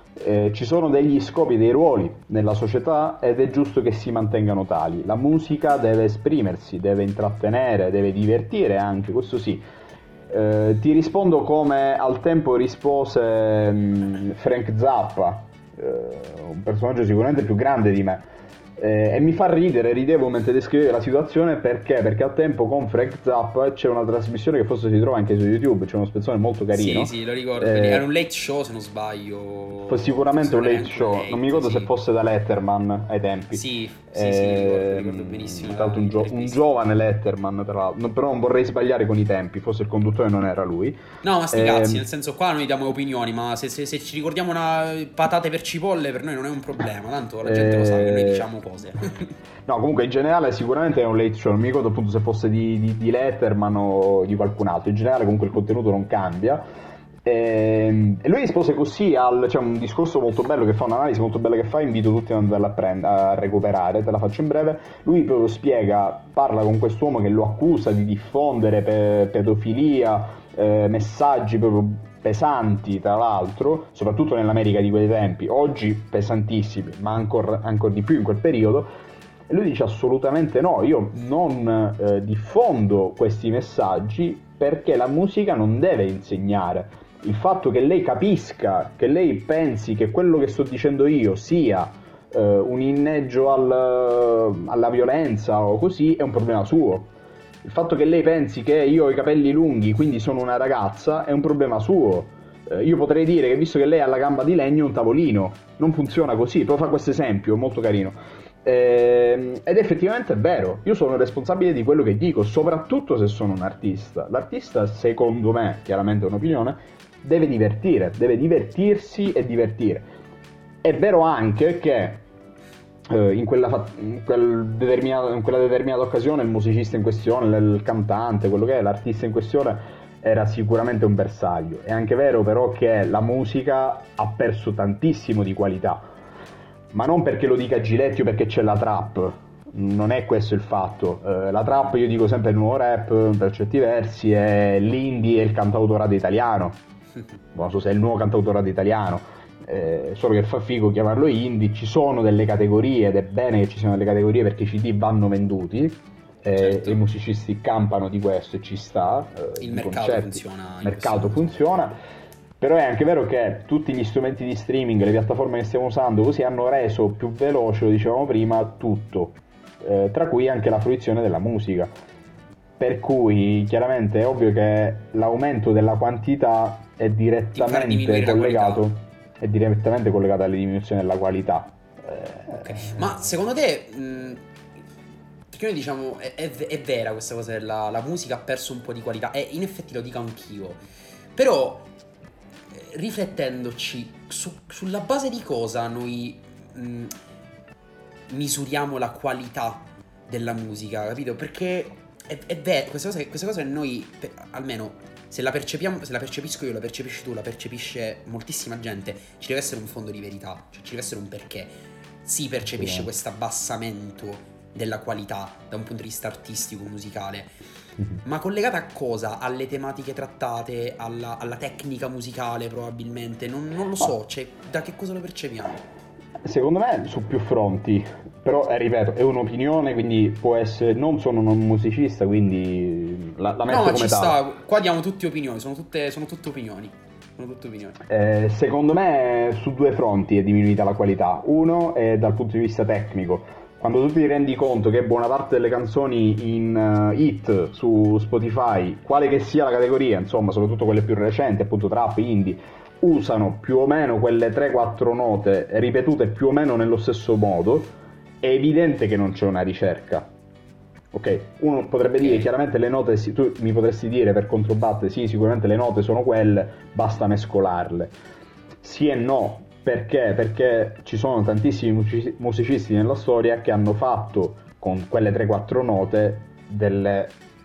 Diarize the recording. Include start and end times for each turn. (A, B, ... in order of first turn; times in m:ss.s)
0:00.2-0:09.6 A
0:10.3-0:18.2 A
0:18.8-0:28.1 A
0:26.7-0:31.9 B
0:29.8-0:41.0 A
0:33.5-0:36.6 B
0:41.2-0:49.3 B
0:41.5-0:42.1 A
0:47.4-0:48.5 A
0:49.7-0:56.6 A
0:57.2-1:18.9 A
1:19.5-2:00.1 A
2:00.8-2:02.2 A
2:03.1-2:16.1 A
2:16.9-2:26.8 A
2:27.5-2:42.0 A
2:36.6-2:37.0 B
2:39.6-2:41.6 B
2:42.6-2:51.9 A
2:52.8-3:03.1 A
2:57.6-2:58.9 B
3:02.6-3:04.4 B
3:05.5-3:10.8 B
3:11.4-3:11.9 B
3:12.7-3:17.1 B
3:18.3-3:37.5 B
3:32.8-3:33.1 A
3:38.2-3:45.8 B
3:46.4-3:54.4 A
3:53.7-3:58.0 B
3:58.1-4:20.3 A
4:21.1-4:28.2 A
4:22.2-4:22.5 B
4:28.8-4:37.4 A